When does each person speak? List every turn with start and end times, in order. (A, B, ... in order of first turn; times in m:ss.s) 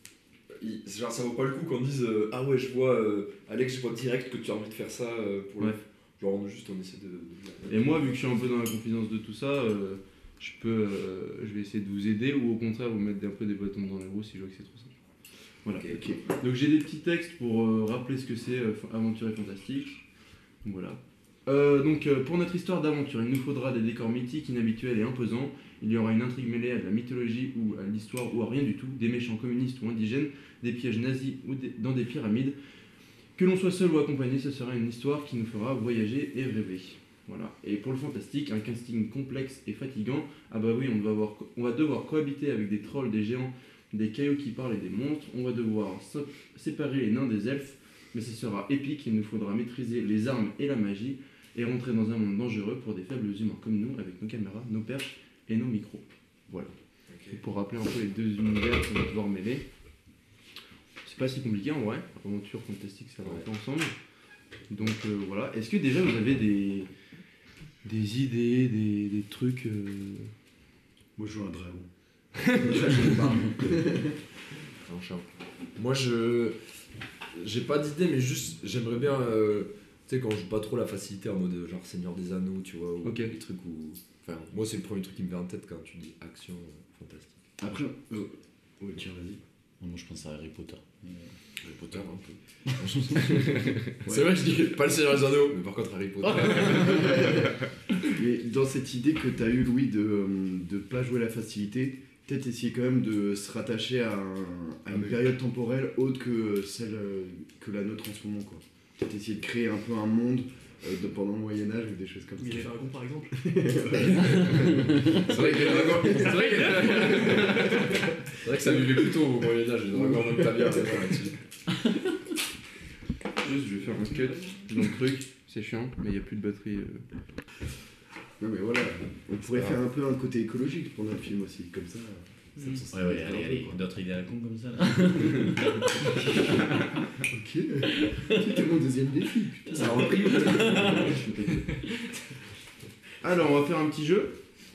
0:00.6-0:08.1 A
0:07.7-0:14.9 B
0:15.6-0:20.0 B
0:15.9-0:16.2 C
0:20.6-0:32.6 B
0:33.4-0:56.7 B
0:57.1-0:57.4 A
0:57.3-0:59.6 B
1:01.0-1:03.9 B
1:04.7-1:06.9 B
1:07.8-1:10.3 B
1:11.2-1:11.9 C
1:12.5-1:13.2 B
1:12.5-1:14.2 C
1:12.6-1:13.7 A
1:14.8-1:15.2 A
1:15.8-1:16.6 A
1:17.3-1:27.4 A
1:23.0-1:23.3 B
1:27.6-1:29.4 C
1:29.8-1:31.3 D
1:31.6-1:37.5 A
1:32.8-1:33.8 D
1:34.0-1:34.6 C
1:36.4-1:36.8 D
1:36.7-1:52.8 C
1:52.4-1:53.6 E
1:53.4-1:56.3 C
1:54.3-2:01.4 A
1:55.6-1:57.9 E
1:57.1-1:57.6 B
1:59.9-2:01.3 C
2:03.4-2:07.0 B
2:08.4-2:13.8 C
2:12.6-2:12.8 E
2:12.9-2:16.7 D
2:17.2-2:21.2 C
2:18.0-2:18.4 D
2:19.7-2:21.6 A
2:19.8-2:21.2 D
2:20.7-2:21.6 B
2:23.2-2:24.4 B